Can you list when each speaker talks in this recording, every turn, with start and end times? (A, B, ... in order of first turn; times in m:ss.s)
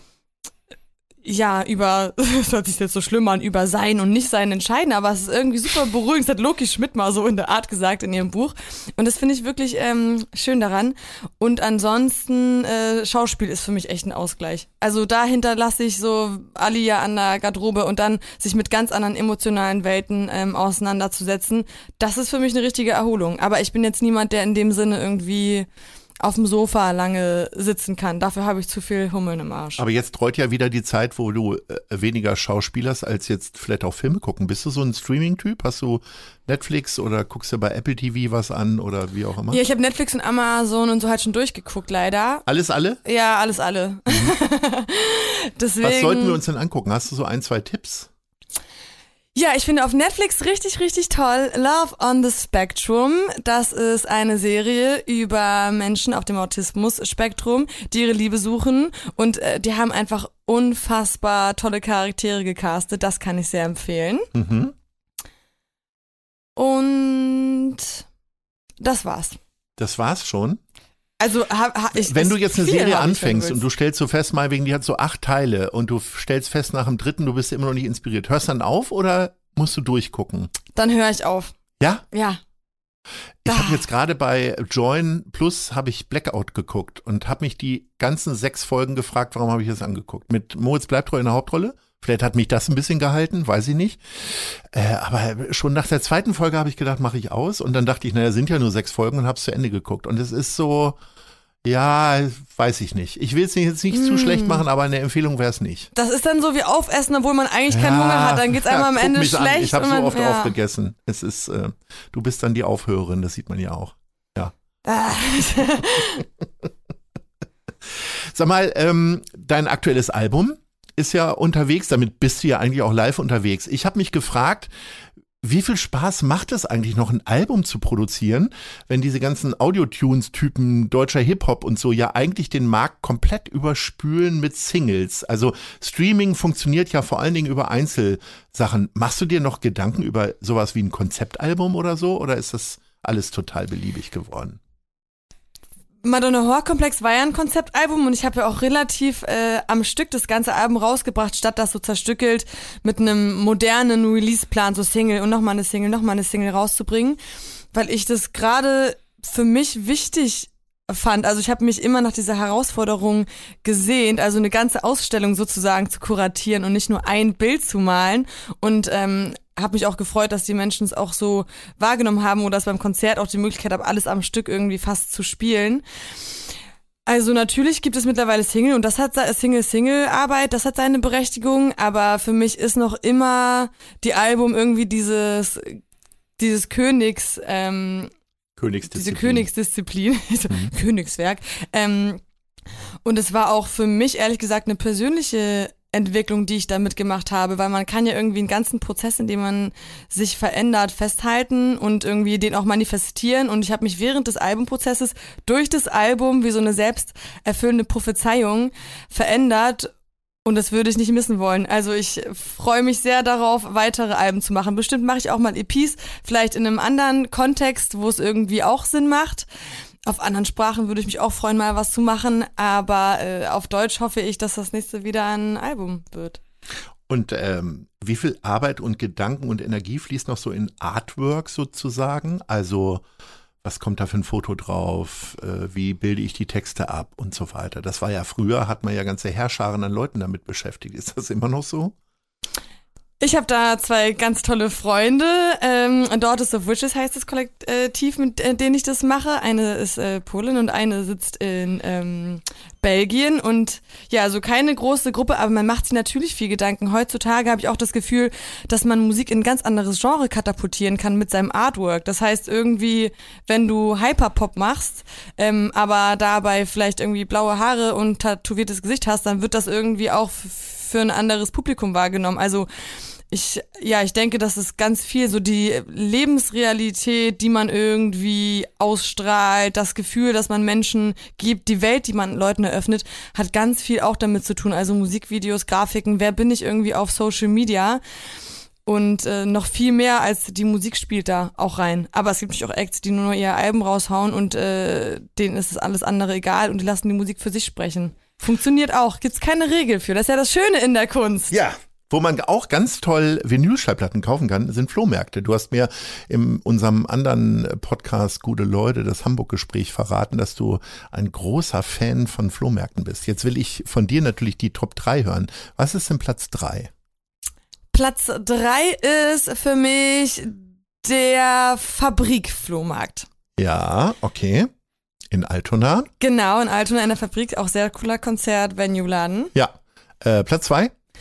0:01.2-0:25.7 A
0:26.2-0:29.8 A
0:29.8-0:39.6 B
0:39.5-0:42.4 A
0:42.5-0:43.0 B
0:43.0-0:46.4 A
0:45.8-0:48.1 B
0:49.3-1:04.3 A
1:04.3-1:04.7 B
1:06.6-1:08.0 A
1:08.8-1:09.4 A
1:09.8-1:10.6 B
1:11.2-1:13.6 A
1:11.9-1:20.5 B
1:20.7-1:21.5 A
1:21.8-1:22.0 B
1:22.1-1:22.4 A
1:23.4-1:41.0 B
1:23.4-1:23.8 A
1:41.6-1:45.9 B
1:43.9-1:44.6 A
1:45.9-1:50.6 A
1:47.7-1:54.5 B
1:54.8-1:56.2 A
1:58.0-2:04.7 B
2:05.4-2:24.6 B
2:26.0-2:37.2 A
2:37.7-2:55.8 A
2:57.1-3:05.8 A
3:06.4-3:08.1 A
3:08.6-3:09.5 B
3:08.9-3:12.2 A
3:13.0-3:29.9 A
3:30.4-3:39.5 A
3:40.0-3:46.4 A
3:47.1-3:53.0 B
3:53.6-4:01.9 B
4:03.2-4:32.7 A
4:33.3-4:48.0 A
4:48.8-5:01.6 A
5:01.5-5:16.9 B
5:17.9-5:23.3 A
5:23.6-5:24.7 B
5:25.3-5:26.1 B
5:26.2-5:29.5 A
5:29.5-5:30.9 B